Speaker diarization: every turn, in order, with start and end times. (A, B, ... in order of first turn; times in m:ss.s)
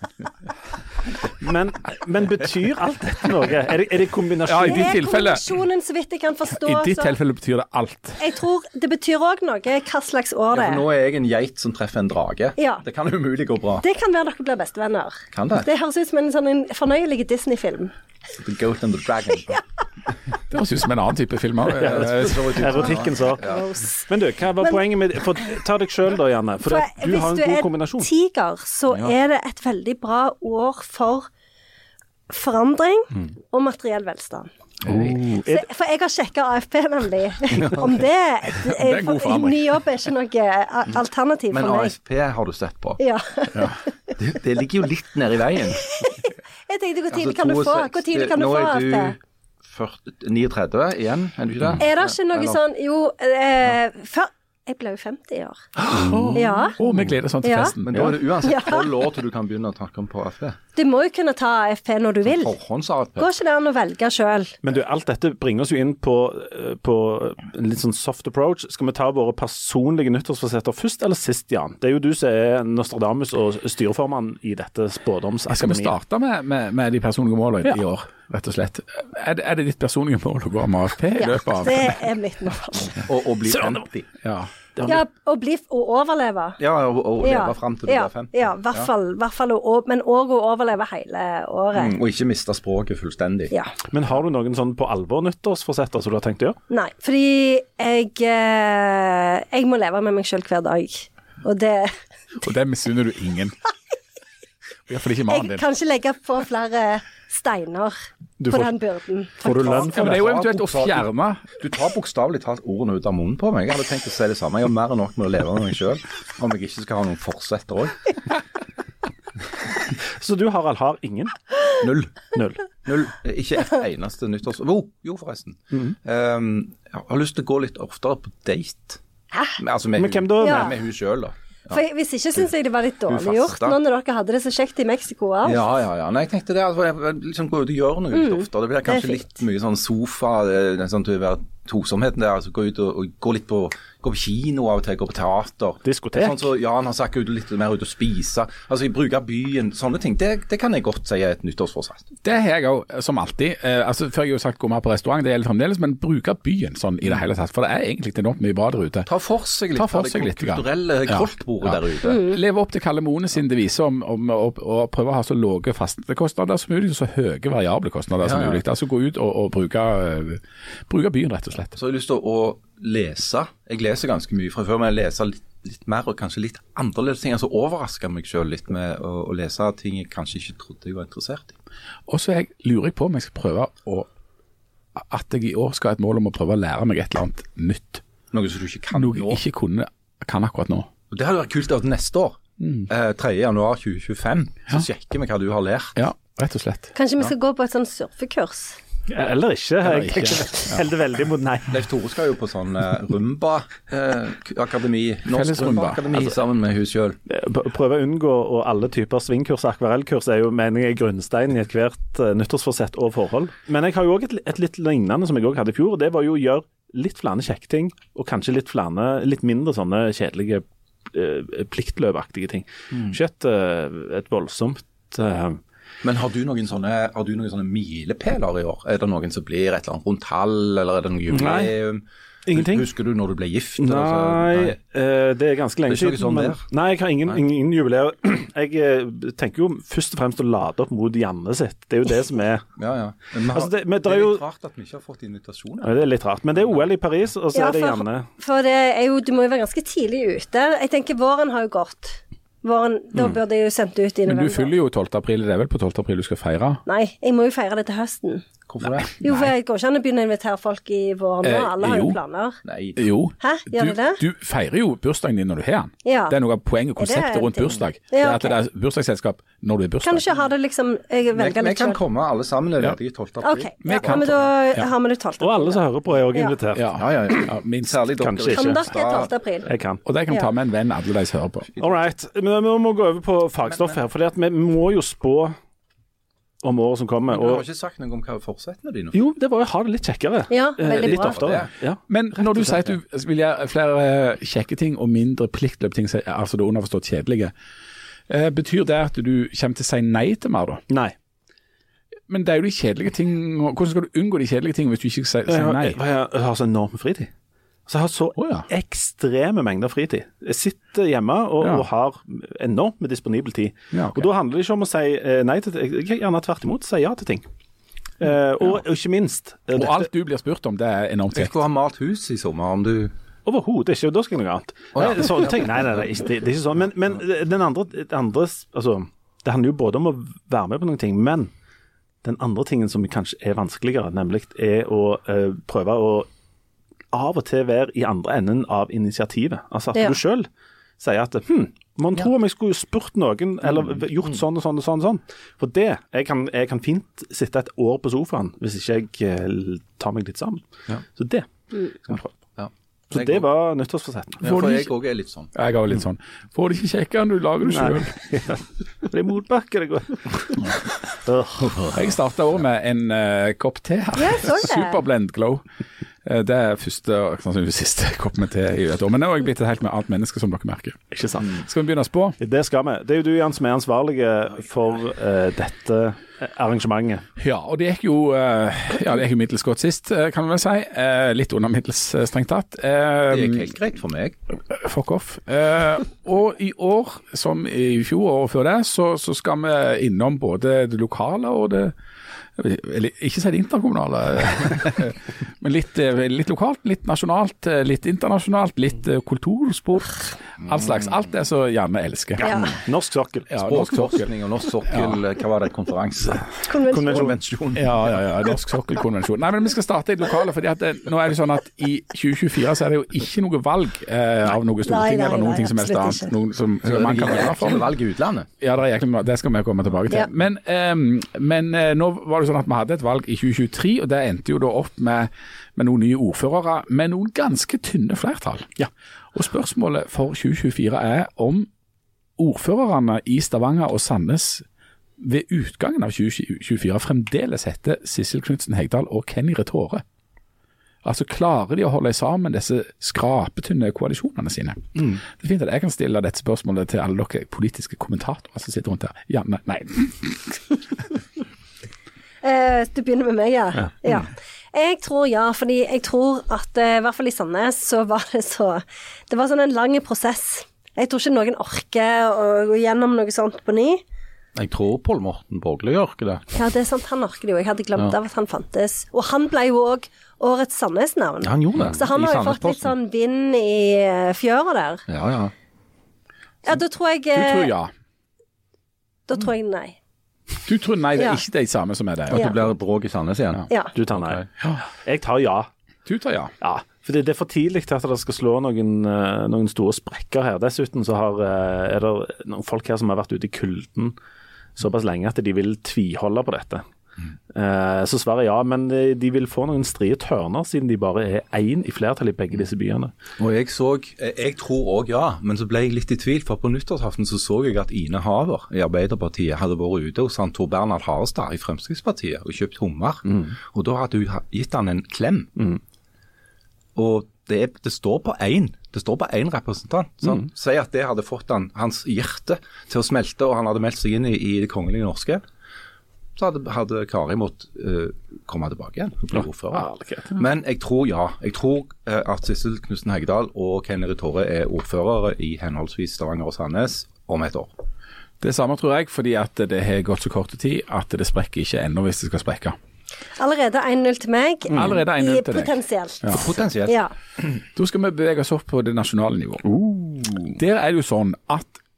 0:01.4-0:05.0 A
0:04.5-0:05.4 B
0:04.6-0:07.1 C
0:06.5-0:08.2 B
0:08.2-0:10.8 C
0:10.5-0:13.8 D
0:12.6-0:12.8 C
0:13.8-0:17.9 C
0:15.3-0:15.7 D
0:18.3-0:19.6 D
0:20.5-0:22.9 B
0:21.7-0:23.4 A
0:21.8-0:23.7 D
0:23.4-0:24.1 C
0:24.1-0:28.1 A
0:26.6-0:31.3 C
0:28.9-0:29.1 D
0:32.3-0:34.5 C
0:34.8-0:35.2 B
0:34.9-0:35.6 A
0:35.4-0:41.9 C
0:37.6-0:38.0 D
0:38.5-0:39.8 B
0:41.5-0:43.0 D
0:43.0-0:43.9 C
0:44.2-0:46.0 D
0:45.9-0:49.1 C
0:47.1-0:52.6 D
0:51.8-0:55.6 C
0:55.8-0:58.2 B
0:56.3-0:56.8 C
0:57.4-0:57.8 C
0:57.8-1:00.6 D
0:58.4-0:59.0 C
1:00.7-1:02.5 C
1:02.2-1:03.3 D
1:03.2-1:04.6 C
1:04.6-1:15.9 A
1:15.5-1:22.0 B
1:21.2-1:23.1 C
1:23.0-1:24.1 D
1:23.5-1:23.8 A
1:24.2-1:24.5 B
1:24.8-1:26.6 C
1:26.6-1:28.9 D
1:27.2-1:32.0 C
1:31.7-1:33.5 D
1:33.9-1:36.6 A
1:36.7-1:42.0 C
1:42.4-1:43.5 B
1:44.9-1:45.6 B
1:45.3-1:50.0 C
1:48.4-1:48.7 A
1:49.4-1:50.2 A
1:49.5-1:51.0 D
1:49.9-1:51.5 B
1:51.6-1:58.1 D
2:00.0-2:01.4 A
2:01.8-2:09.0 D
2:02.3-2:02.6 A
2:09.6-2:11.8 D
2:10.0-2:10.8 A
2:10.4-2:10.7 C
2:11.7-2:15.6 C
2:13.1-2:13.8 D
2:15.4-2:32.1 D
2:18.1-2:19.2 C
2:25.8-2:26.5 A
2:32.2-2:39.1 B
2:39.0-2:42.3 D
2:39.7-2:51.8 B
2:48.2-2:48.6 D
2:51.8-3:01.6 D
3:02.1-3:04.1 B
3:04.9-3:08.0 B
3:08.3-3:09.4 D
3:08.9-3:10.9 B
3:11.1-3:16.0 D
3:12.6-3:12.9 B
3:16.0-3:16.9 B
3:16.9-3:18.8 C
3:19.1-3:21.8 A
3:19.8-3:20.8 B
3:21.7-3:27.2 D
3:25.3-3:26.1 B
3:27.3-3:45.6 A
3:42.9-3:43.2 D
3:46.0-3:54.8 D
3:51.3-3:51.7 A
3:52.4-3:52.9 A
3:53.8-4:02.7 A
3:55.9-3:56.6 D
4:02.8-4:06.0 D
4:03.5-4:04.4 A
4:05.8-4:08.3 A
4:07.5-4:14.7 C
4:14.2-4:16.8 B
4:16.8-4:18.4 C
4:18.7-4:19.2 D
4:18.8-4:19.5 B
4:19.2-4:22.6 C
4:21.4-4:22.2 B
4:22.6-4:23.0 D
4:23.0-4:30.3 B
4:23.4-4:24.2 C
4:26.0-4:26.4 C
4:27.0-4:28.6 C
4:30.0-4:32.0 C
4:31.3-4:34.3 D
4:33.4-4:36.5 C
4:33.8-4:34.9 B
4:35.4-4:36.9 A
4:36.7-4:38.0 B
4:36.9-4:39.3 D
4:38.2-4:38.8 A
4:38.5-4:39.7 C
4:39.6-4:40.0 A
4:40.0-4:41.7 B
4:41.8-4:45.6 A
4:43.6-4:44.0 D
4:46.6-4:47.6 A
4:47.3-4:49.2 D
4:49.1-4:52.9 A
4:50.5-4:51.4 C
4:50.9-4:51.7 D
4:52.1-4:57.5 B
4:58.3-5:00.8 B
5:02.3-5:06.0 B
5:05.5-5:07.3 A
5:07.9-5:17.4 A
5:08.4-5:08.7 B
5:11.6-5:11.8 B
5:13.9-5:14.3 B
5:18.2-5:20.0 A
5:19.7-5:21.6 B
5:21.3-5:23.1 D
5:23.4-5:31.5 A
5:24.9-5:25.5 D
5:32.2-5:36.3 A
5:37.1-5:40.5 A
5:41.0-5:52.3 A
5:52.6-5:53.4 D
5:53.1-5:54.6 A
5:54.4-5:55.5 D
5:54.4-5:54.9 B
5:55.5-5:58.1 B
5:57.7-6:01.9 A
6:01.9-6:05.6 B
6:04.2-6:05.0 C
6:06.2-6:12.4 B
6:11.1-6:11.6 A
6:12.4-6:17.2 A
6:17.4-6:23.7 B
6:23.3-6:24.4 D
6:24.7-6:31.9 B
6:32.6-6:42.7 B
6:42.4-6:42.7 C
6:42.4-6:43.6 A
6:42.5-6:42.8 D
6:43.5-6:44.3 B
6:43.6-6:48.0 D
6:44.9-6:45.2 B
6:46.6-6:47.3 C
6:46.9-6:47.4 A
6:47.7-6:57.9 B
6:54.8-6:56.3 C
6:56.8-6:58.5 D
6:58.6-7:11.7 B
7:12.4-7:14.6 B
7:15.2-7:20.0 B
7:21.0-7:30.6 B
7:32.4-7:44.0 C
7:44.5-7:46.4 D
7:46.5-7:55.0 C
7:51.4-7:52.9 D
7:55.1-7:55.5 D
7:56.6-7:57.7 C
7:57.3-7:57.9 B
7:59.3-8:00.0 C
8:00.6-8:02.7 B
8:02.3-8:04.4 D
8:03.9-8:05.7 A
8:06.0-8:06.5 B
8:06.6-8:14.2 A
8:14.8-8:16.8 A
8:17.5-8:23.1 A
8:23.4-8:35.8 D
8:37.0-8:45.4 D
8:46.4-8:57.7 D
8:49.7-8:50.4 A
8:58.4-9:02.8 B
9:03.4-9:07.1 C
9:04.7-9:06.4 B
9:06.3-9:07.0 D
9:07.7-9:09.7 B
9:10.5-9:11.8 B